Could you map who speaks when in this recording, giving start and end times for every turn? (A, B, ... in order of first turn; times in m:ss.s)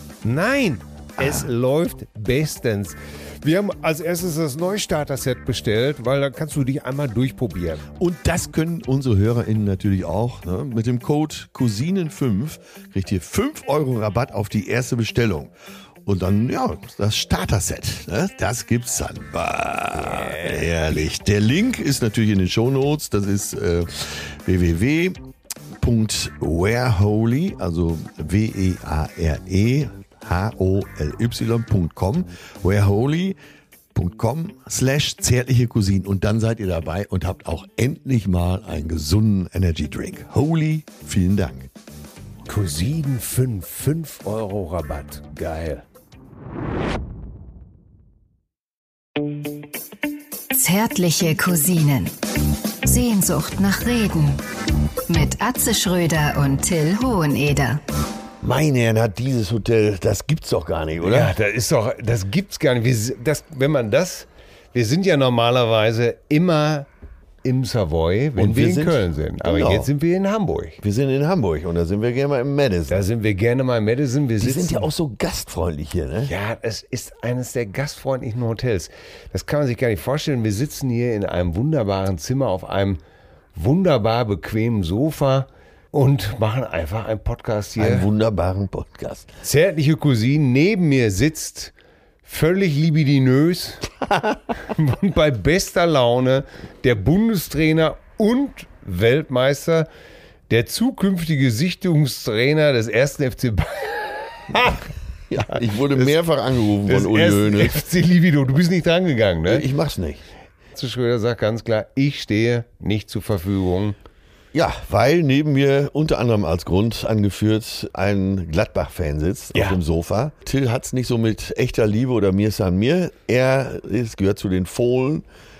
0:00.2-0:07.8 A
0:01.2-0:01.5 B
0:08.0-0:15.5 B
0:16.0-0:25.2 B
0:20.0-0:21.0 A
0:25.8-0:33.4 B
0:33.9-0:41.7 B
0:42.4-0:45.8 A
0:50.5-0:52.1 C
0:52.8-0:54.4 C
0:55.1-0:57.8 C
0:58.4-1:01.3 B
1:01.0-1:06.9 A
1:07.4-1:10.8 A
1:08.4-1:09.9 B
1:10.8-1:13.0 B
1:12.9-1:14.9 A
1:14.4-1:16.3 B
1:16.2-1:23.0 A
1:23.5-1:28.1 A
1:27.8-1:29.3 B
1:29.4-1:31.7 A
1:32.2-1:33.9 A
1:34.6-1:39.9 A
1:40.5-1:44.9 A
1:45.3-1:47.8 B
1:45.5-1:46.1 A
1:46.8-1:49.6 A
1:49.5-1:50.2 B
1:50.7-1:54.0 A
1:54.5-2:05.2 B
1:59.5-1:59.8 A